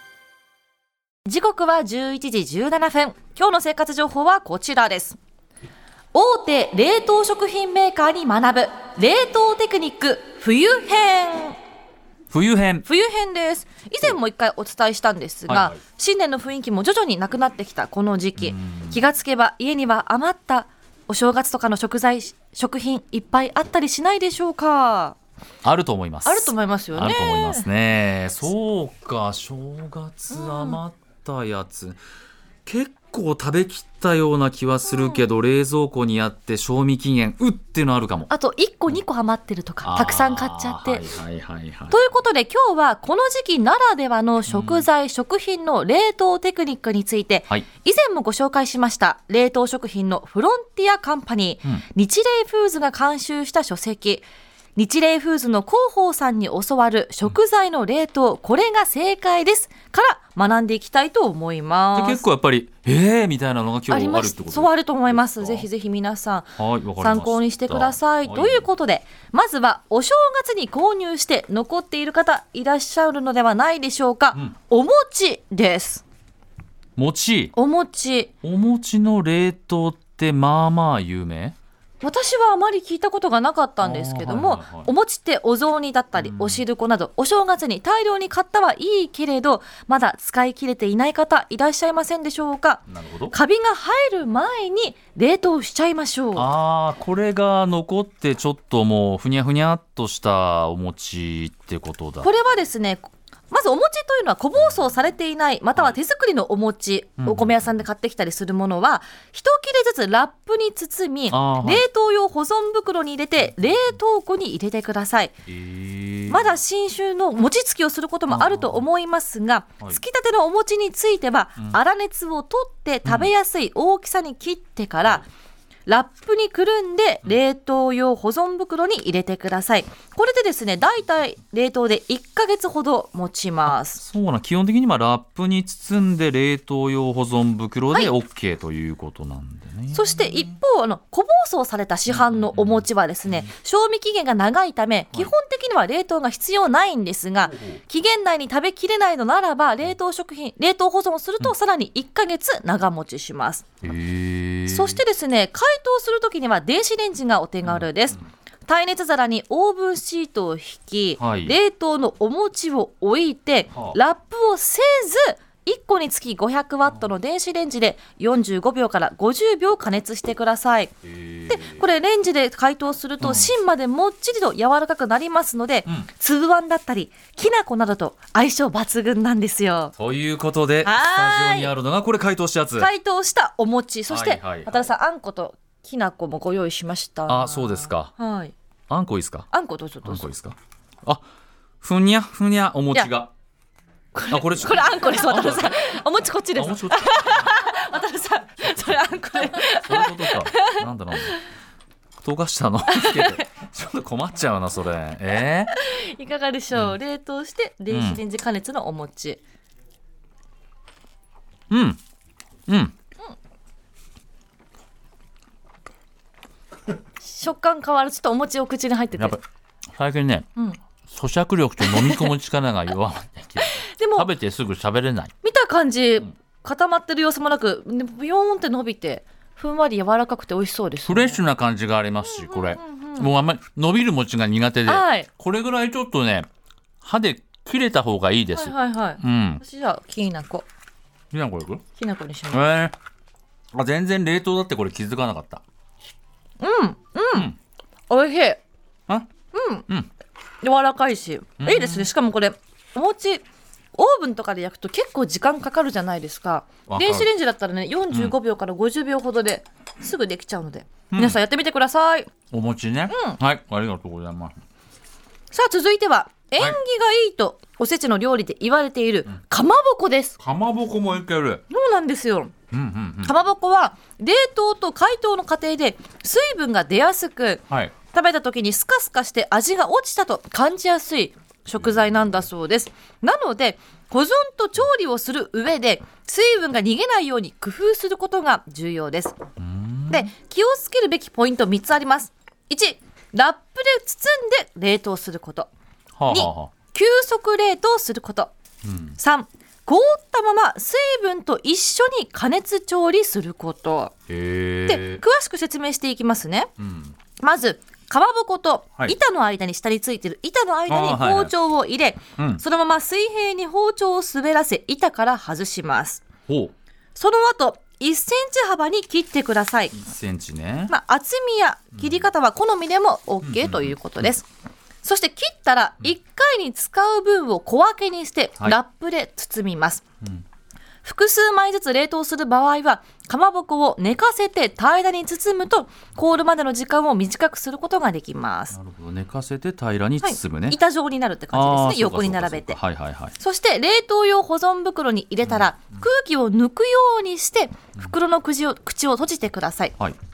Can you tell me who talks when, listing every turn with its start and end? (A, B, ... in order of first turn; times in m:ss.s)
0:01.3-0:05.2 A
0:06.1-0:11.6 A
0:12.3-0:12.9 B
0:12.8-0:25.2 A
0:15.5-0:15.8 B
0:18.4-0:19.0 B
0:25.6-0:32.0 B
0:26.2-0:27.7 A
0:30.3-0:30.8 A
0:32.7-0:38.3 B
0:34.9-0:35.2 A
0:38.3-0:41.1 A
0:39.8-0:42.0 B
0:41.9-1:02.2 A
0:44.5-0:44.8 B
1:02.0-1:05.7 B
1:03.9-1:16.0 A
1:06.6-1:08.6 B
1:17.0-1:17.5 B
1:17.6-1:18.3 A
1:18.4-1:21.6 B
1:22.0-1:36.5 A
1:23.8-1:24.9 B
1:26.2-1:26.6 B
1:32.9-1:33.4 B
1:36.4-1:42.3 B
1:42.2-1:55.3 A
1:47.2-1:47.7 B
1:51.3-1:51.8 B
1:55.5-1:56.5 B
1:56.3-2:05.3 A
1:58.3-1:58.8 B
2:03.0-2:03.3 B
2:05.9-2:14.0 A
2:13.7-2:20.5 B
2:19.9-2:33.6 A
2:22.1-2:23.5 B
2:27.5-2:27.8 B
2:33.8-2:35.0 B
2:34.7-2:51.0 A
2:41.2-2:41.6 B
2:43.7-2:44.0 B
2:51.0-2:51.8 B
2:51.5-3:00.0 A
2:53.2-2:53.5 B
3:00.0-3:02.9 B
3:00.8-3:01.7 A
3:02.8-3:08.5 A
3:04.1-3:04.8 B
3:07.3-3:08.1 B
3:08.9-3:09.5 B
3:09.5-3:10.3 A
3:10.0-3:11.2 B
3:11.8-3:13.3 B
3:14.1-3:21.4 A
3:14.3-3:17.7 B
3:19.6-3:21.4 B
3:22.2-3:25.7 B
3:22.9-3:23.5 A
3:25.7-3:29.4 A
3:26.7-3:27.0 B
3:27.9-3:28.2 B
3:31.7-3:32.0 B
3:32.7-3:32.9 B
3:37.2-3:39.4 A
3:39.2-3:39.4 B
3:40.0-3:40.5 B
3:41.1-3:45.3 B
3:41.8-3:42.3 A
3:43.6-3:44.3 A
3:45.4-3:51.4 A
3:51.1-3:56.5 B
3:52.2-3:53.3 A
3:54.9-3:55.3 A
3:57.0-3:59.6 B
3:58.5-4:00.7 A
4:01.3-4:01.8 B
4:02.0-4:02.6 A
4:02.5-4:03.0 B
4:03.7-4:05.6 B
4:06.6-4:07.5 A
4:08.1-4:08.6 A
4:09.5-4:09.9 A
4:10.6-4:22.3 A
4:11.6-4:12.1 B
4:16.9-4:17.3 B
4:21.1-4:21.4 B
4:22.5-4:24.6 B
4:23.1-4:23.4 A
4:25.5-4:30.4 A
4:30.4-4:31.6 B
4:31.7-4:32.5 A
4:32.7-4:33.3 B
4:33.2-4:49.4 A
4:49.6-4:50.3 B
4:50.1-4:55.7 A
4:56.2-4:56.7 B
4:56.3-4:58.5 A
4:58.8-4:59.2 B
4:59.2-5:04.1 A
5:04.3-5:05.2 B
5:04.9-5:06.7 A
5:06.8-5:07.2 B
5:07.4-5:16.2 A
5:10.9-5:11.5 B
5:12.4-5:12.6 B
5:16.5-5:16.7 B
5:17.2-5:20.0 A
5:19.9-5:20.9 B
5:20.9-5:24.5 A
5:22.0-5:22.2 B
5:23.4-5:24.3 B
5:25.0-5:30.0 A
5:31.0-5:38.8 A
5:38.7-5:40.8 B
5:40.2-5:42.8 A
5:41.5-5:43.3 B
5:43.4-5:50.0 A